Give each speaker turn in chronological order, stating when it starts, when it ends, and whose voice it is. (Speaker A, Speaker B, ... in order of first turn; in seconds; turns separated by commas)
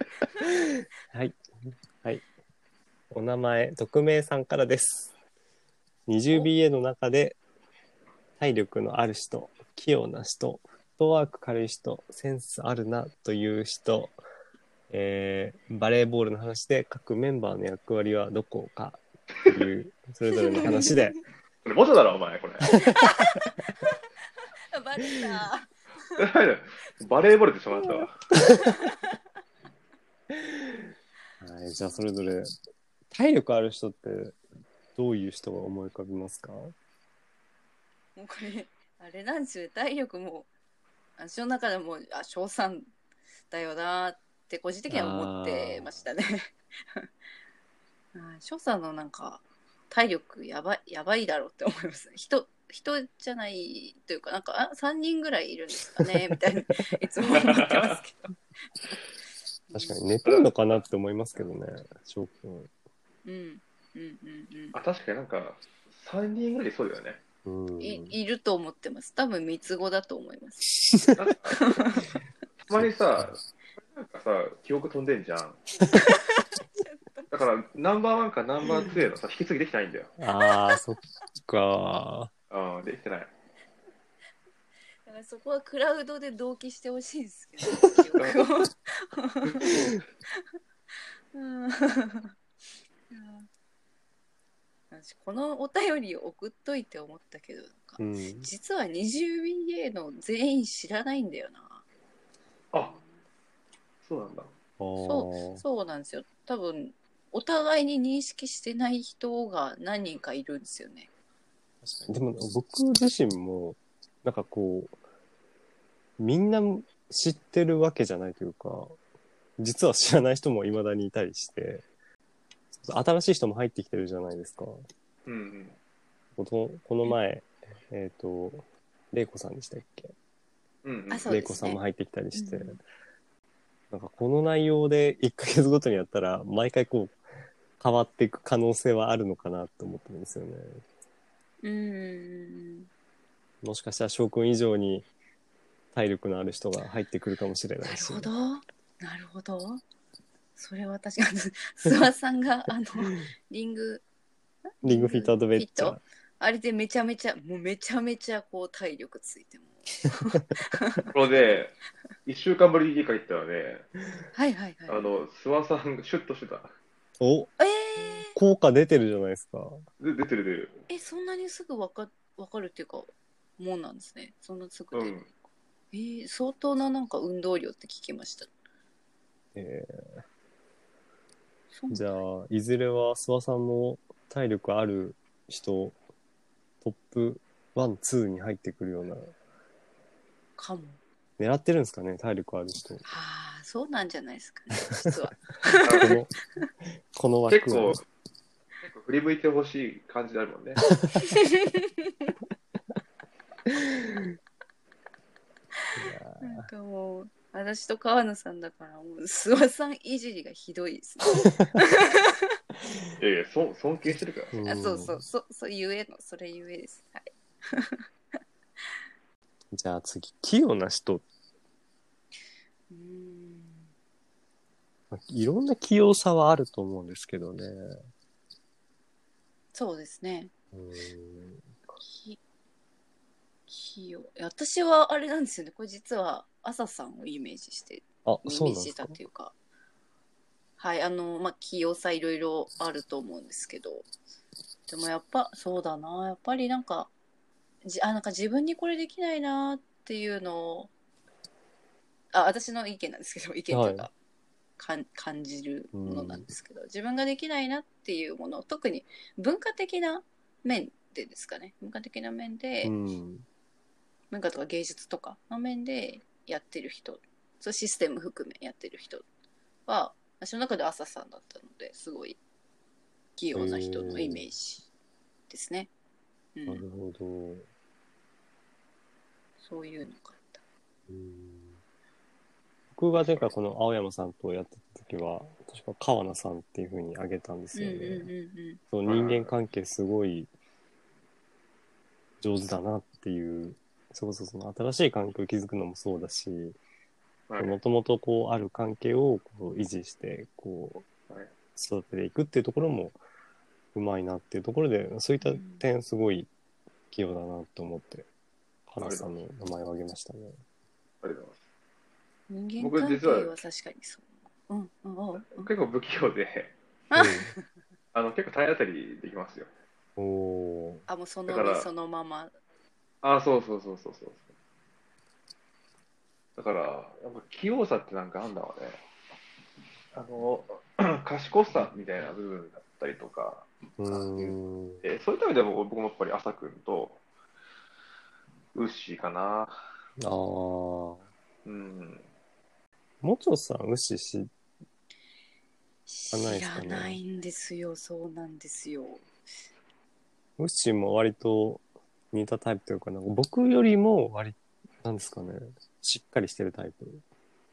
Speaker A: 0.3-0.5, Speaker B: 1.1-1.4, Speaker B: 3.1-5.1, Speaker B: 6.1-7.4, Speaker B: 8.4-14.2, Speaker B: 14.9-21.1, Speaker A: 20.3-21.0, Speaker C: 21.6-22.9, Speaker A: 22.7-24.0, Speaker A: 24.7-26.2, Speaker C: 26.2-28.1, Speaker A: 28.4-29.2, Speaker B: 30.3-30.8, Speaker B: 31.4-32.5, Speaker B: 33.1-34.4, Speaker B: 35.0-36.7, Speaker A: 38.1-40.5, Speaker A: 41.2-42.9, Speaker A: 43.5-47.1, Speaker B: 44.9-45.9, Speaker A: 48.1-58.3, Speaker C: 57.3-58.0, Speaker A: 59.7-60.0, Speaker B: 59.7-62.7, Speaker C: 60.2-60.5, Speaker A: 63.2-64.8, Speaker C: 64.7-67.2, Speaker B: 67.4-68.2, Speaker A: 67.8-70.8, Speaker C: 71.2-72.0, Speaker A: 71.6-72.1, Speaker C: 72.6-75.6, Speaker B: 72.7-73.3, Speaker A: 75.9-77.3, Speaker C: 77.3-80.2, Speaker B: 80.2-82.3, Speaker A: 80.4-80.8, Speaker C: 82.5-83.3, Speaker A: 85.0-89.8, Speaker C: 88.2-88.4, Speaker A: 91.3-92.3, Speaker A: 93.1-93.5, Speaker A: 94.9-101.8, Speaker B: 98.0-98.5, Speaker C: 102.7-103.0, Speaker A: 102.8-103.2, Speaker C: 104.0-104.5, Speaker B: 104.8-105.6, Speaker A: 105.0-111.1, Speaker B: 111.9-115.0, Speaker B: 116.2-119.0, Speaker B: 119.6-121.8, Speaker B: 122.7-124.8, Speaker C: 125.2-125.8, Speaker B: 126.3-130.1, Speaker C: 130.8-131.3, Speaker A: 131.1-131.8, Speaker B: 131.3-132.8, Speaker A: 132.3-132.8, Speaker B: 133.9-137.2, Speaker B: 137.8-140.8, Speaker A: 141.6-142.9, Speaker B: 143.6-145.1, Speaker B: 145.9-148.3, Speaker A: 147.8-149.8, Speaker A: 150.6-154.0, Speaker A: 154.8-161.6, Speaker B: 154.8-156.0, Speaker C: 161.1-163.9, Speaker A: 164.3-165.1, Speaker C: 164.9-166.7, Speaker B: 167.2-167.5, Speaker A: 167.6-168.3, Speaker B: 168.1-169.8, Speaker C: 170.0-170.9, Speaker A: 170.9-175.2, Speaker C: 174.9-175.3, Speaker A: 175.9-178.5, Speaker B: 179.5-180.0, Speaker A: 181.7-182.2, Speaker B: 181.9-186.0, Speaker B: 186.8-189.3, Speaker A: 190.6-191.0, Speaker B: 191.4-193.0, Speaker A: 193.1-196.6, Speaker C: 195.8-196.2, Speaker B: 196.0-196.3, Speaker B: 197.1-198.0, Speaker C: 197.5-198.0, Speaker C: 198.8-200.8, Speaker A: 201.2-202.3, Speaker B: 203.7-204.3, Speaker B: 206.0-206.7, Speaker A: 206.4-212.3, Speaker C: 213.2-214.6, Speaker B: 214.5-215.2, Speaker A: 214.6-218.0, Speaker B: 219.7-221.2, Speaker A: 222.9-223.9, Speaker B: 225.1-227.9, Speaker A: 229.7-230.5, Speaker B: 230.7-231.7, Speaker A: 232.0-232.4, Speaker A: 233.7-239.5, Speaker B: 238.2-239.2, Speaker A: 240.8-244.1, Speaker A: 244.9-247.1, Speaker A: 247.8-250.9, Speaker A: 252.3-254.1, Speaker B: 253.7-254.1, Speaker A: 254.8-262.9, Speaker B: 255.9-256.5, Speaker B: 262.8-263.4, Speaker A: 264.3-269.2, Speaker A: 269.9-272.4, Speaker A: 273.4-274.9, Speaker B: 273.5-274.4, Speaker A: 275.5-275.9, Speaker A: 276.5-276.8, Speaker B: 276.7-277.6, Speaker A: 279.6-280.6, Speaker B: 281.1-281.8, Speaker B: 282.9-288.3, Speaker C: 283.1-283.5, Speaker A: 287.7-288.8, Speaker B: 288.9-290.5, Speaker C: 289.1-289.5, Speaker B: 292.4-296.8, Speaker C: 297.5-297.8, Speaker B: 297.6-301.1, Speaker B: 301.8-303.2, Speaker B: 303.9-306.5, Speaker A: 305.4-305.8, Speaker B: 307.1-308.2, Speaker B: 308.9-310.6, Speaker C: 309.0-309.4, Speaker C: 311.2-311.6, Speaker A: 312.5-315.7, Speaker C: 312.8-313.6, Speaker C: 315.4-316.7, Speaker A: 317.1-317.6, Speaker B: 317.1-317.5, Speaker C: 318.1-319.7, Speaker B: 320.2-321.1, Speaker A: 321.1-322.5, Speaker C: 321.5-321.9, Speaker C: 323.2-324.4, Speaker C: 326.6-329.0, Speaker C: 330.1-337.2, Speaker B: 334.0-335.0, Speaker C: 338.7-339.8, Speaker B: 340.2-341.2, Speaker C: 341.6-342.2, Speaker B: 343.2-344.5, Speaker A: 346.1-349.2, Speaker B: 346.3-347.2, Speaker B: 350.6-357.2